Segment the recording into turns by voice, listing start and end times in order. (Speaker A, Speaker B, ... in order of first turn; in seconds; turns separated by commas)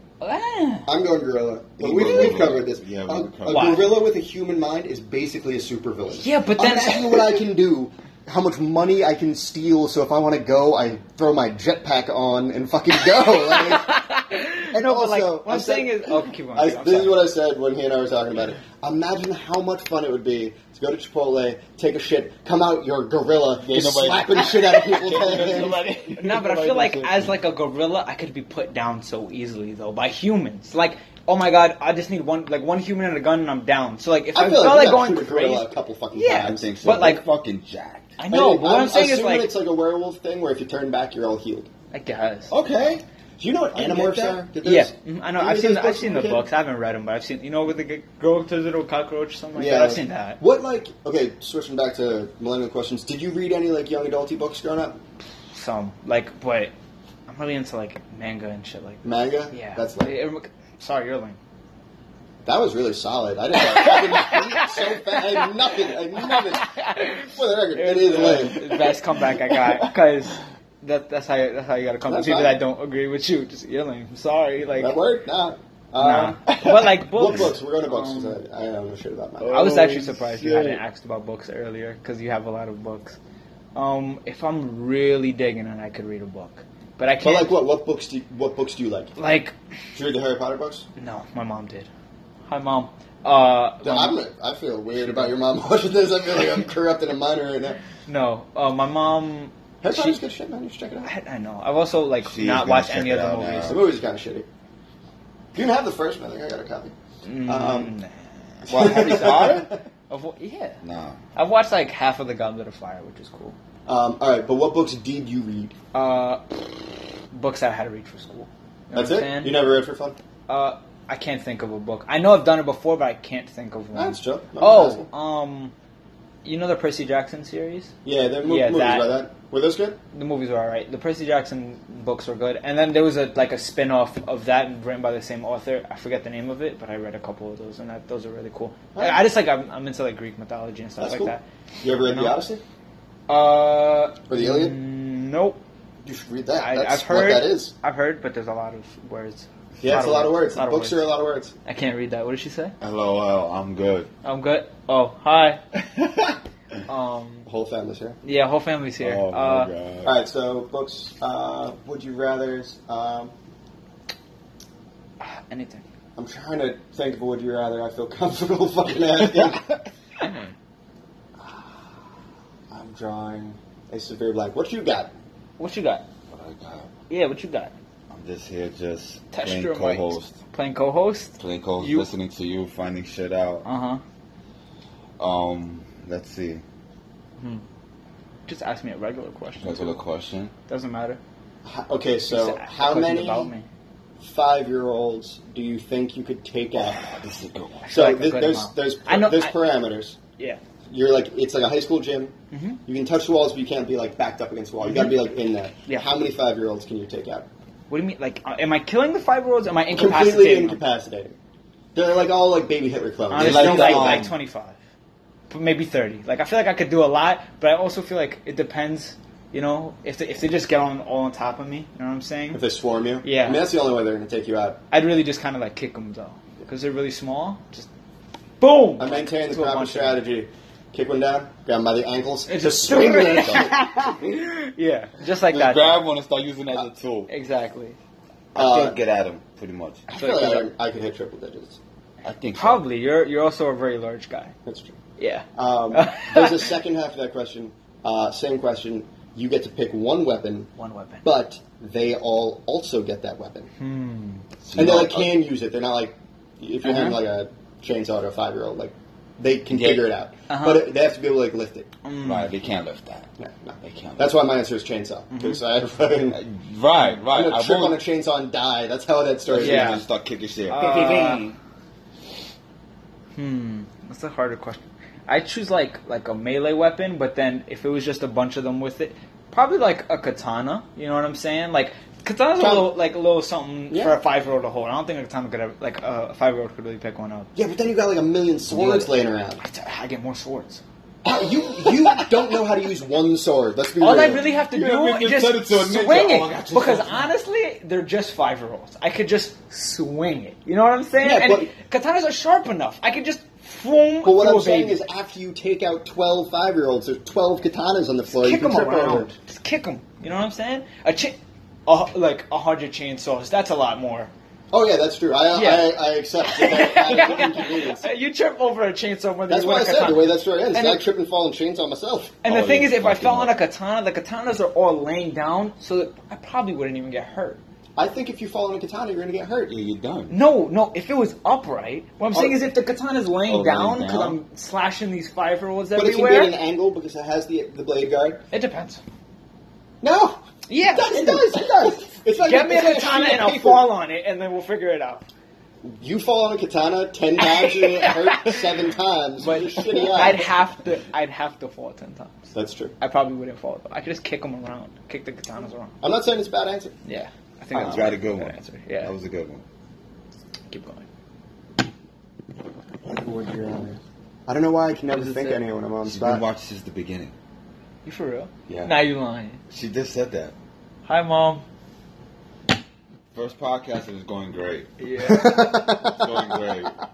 Speaker A: 0.2-0.9, Speaker B: 0.9-14.0, Speaker C: 1.8-3.9, Speaker A: 2.1-2.4, Speaker A: 3.5-3.9, Speaker A: 6.2-7.4, Speaker A: 13.5-17.2, Speaker B: 14.7-25.8, Speaker C: 23.6-27.3, Speaker A: 25.4-37.2, Speaker B: 34.3-36.8, Speaker C: 36.4-38.2, Speaker A: 38.2-39.5, Speaker B: 38.3-41.7, Speaker A: 41.9-42.5, Speaker C: 42.5-43.0, Speaker B: 43.4-46.5, Speaker C: 43.8-44.4, Speaker A: 43.8-50.4, Speaker B: 49.6-55.0, Speaker A: 55.5-56.7, Speaker A: 57.3-61.4, Speaker B: 59.0-60.2, Speaker B: 62.5-68.9, Speaker A: 63.5-65.4, Speaker A: 66.2-75.0, Speaker C: 69.5-69.9, Speaker B: 72.1-72.6, Speaker B: 74.8-79.8, Speaker A: 76.0-78.4, Speaker C: 76.5-77.5, Speaker C: 79.4-80.8, Speaker A: 79.5-83.2, Speaker A: 83.8-87.5, Speaker B: 87.2-89.2, Speaker A: 89.2-89.5, Speaker B: 89.9-90.9, Speaker A: 91.0-91.9, Speaker A: 92.5-94.2, Speaker B: 93.8-97.8, Speaker A: 94.9-95.3, Speaker A: 98.1-100.2, Speaker B: 99.8-101.1, Speaker A: 101.0-103.8, Speaker C: 102.2-103.8, Speaker B: 103.7-104.5, Speaker B: 105.5-106.9, Speaker A: 107.2-110.8, Speaker B: 107.5-107.9, Speaker C: 108.7-109.7, Speaker B: 108.7-109.8, Speaker C: 110.8-111.2, Speaker A: 111.4-113.5, Speaker B: 113.9-115.8, Speaker A: 115.9-116.8, Speaker A: 117.3-119.6, Speaker B: 118.9-120.2, Speaker A: 120.5-125.7, Speaker B: 123.9-125.1, Speaker A: 126.5-127.9, Speaker B: 128.1-130.0, Speaker A: 128.4-129.1, Speaker A: 130.1-142.4, Speaker B: 138.9-139.2, Speaker B: 141.0-142.6, Speaker A: 143.3-145.6, Speaker B: 144.3-144.8, Speaker B: 146.1-147.7, Speaker A: 146.6-151.0, Speaker B: 149.8-151.5, Speaker A: 151.7-152.8, Speaker C: 152.8-154.1, Speaker A: 154.2-155.6, Speaker C: 155.7-156.4, Speaker A: 156.9-157.5, Speaker B: 157.5-158.2, Speaker A: 158.2-159.7, Speaker C: 159.0-160.2, Speaker B: 160.0-163.3, Speaker A: 165.2-165.8, Speaker B: 166.2-169.7, Speaker C: 169.3-169.6, Speaker A: 170.2-170.5, Speaker B: 172.7-175.1, Speaker A: 175.6-176.0, Speaker C: 176.3-176.9, Speaker A: 177.1-177.7, Speaker C: 178.1-180.3, Speaker A: 179.3-182.1, Speaker C: 181.4-183.7, Speaker A: 183.7-184.0, Speaker C: 185.2-186.6, Speaker A: 188.5-190.0, Speaker C: 189.6-190.5, Speaker A: 190.7-191.2, Speaker B: 191.7-193.5, Speaker A: 192.3-193.7, Speaker B: 194.2-197.1, Speaker C: 196.8-197.9, Speaker A: 197.8-199.5, Speaker B: 197.9-200.2, Speaker B: 200.9-202.3, Speaker A: 202.5-202.8, Speaker B: 202.9-207.5, Speaker A: 207.9-210.8, Speaker B: 209.9-211.3, Speaker B: 211.9-214.3, Speaker A: 213.3-214.8, Speaker C: 213.3-214.3, Speaker A: 215.5-222.6, Speaker B: 222.5-224.8, Speaker A: 223.2-223.6, Speaker A: 224.9-227.9, Speaker A: 228.6-230.2, Speaker B: 229.0-233.8, Speaker A: 232.5-236.0, Speaker C: 233.4-233.8, Speaker C: 235.5-237.3, Speaker A: 237.3-238.0, Speaker B: 238.5-239.0, Speaker C: 238.6-240.1, Speaker A: 240.1-240.7, Speaker B: 240.1-241.8, Speaker C: 242.2-242.8, Speaker A: 242.6-244.5, Speaker B: 244.7-245.0, Speaker A: 245.2-246.7, Speaker B: 245.6-250.7, Speaker A: 250.8-251.3, Speaker B: 251.2-253.7, Speaker A: 253.8-254.4, Speaker C: 254.6-255.4, Speaker B: 254.8-261.9, Speaker A: 256.8-257.2, Speaker C: 259.7-260.1, Speaker A: 260.5-260.9, Speaker A: 262.1-262.5, Speaker C: 262.2-263.3, Speaker B: 263.4-266.4, Speaker C: 263.8-264.3, Speaker A: 265.3-265.6, Speaker C: 266.3-268.0, Speaker B: 267.3-270.0, Speaker C: 269.5-271.6, Speaker A: 269.6-270.0, Speaker A: 270.7-271.5, Speaker A: 273.4-287.5, Speaker B: 282.6-283.0, Speaker B: 283.9-284.2, Speaker B: 287.6-289.6, Speaker A: 288.7-289.1, Speaker A: 289.6-290.8, Speaker B: 291.2-294.5, Speaker A: 294.0-305.0, Speaker C: 294.5-297.3, Speaker B: 301.2-301.7, Speaker B: 304.2-309.3, Speaker A: 308.3-314.3, Speaker B: 314.7-318.1, Speaker A: 315.5-321.0, Speaker B: 319.5-322.4, Speaker A: 322.4-327.6, Speaker C: 322.5-323.6, Speaker B: 328.0-329.7, Speaker C: 329.7-330.3, Speaker A: 330.3-336.5, Speaker B: 332.3-332.6, Speaker C: 333.5-334.4, Speaker B: 336.0-338.4, Speaker A: 338.5-339.0, Speaker B: 340.0-343.9, Speaker A: 340.7-345.2, Speaker B: 345.8-350.5, Speaker A: 347.4-348.6, Speaker A: 349.4-352.4, Speaker B: 352.5-352.9, Speaker A: 353.0-355.9, Speaker B: 356.0-357.0, Speaker A: 357.1-359.1, Speaker C: 357.8-359.6, Speaker B: 357.8-358.1, Speaker A: 360.7-361.1, Speaker B: 363.1-366.4, Speaker A: 365.1-365.6, Speaker C: 366.0-367.3, Speaker A: 368.1-369.6, Speaker C: 368.7-369.0, Speaker C: 369.7-370.5, Speaker A: 371.1-371.6, Speaker C: 373.3-374.9, Speaker A: 375.0-375.7, Speaker B: 375.2-376.8, Speaker C: 376.0-377.0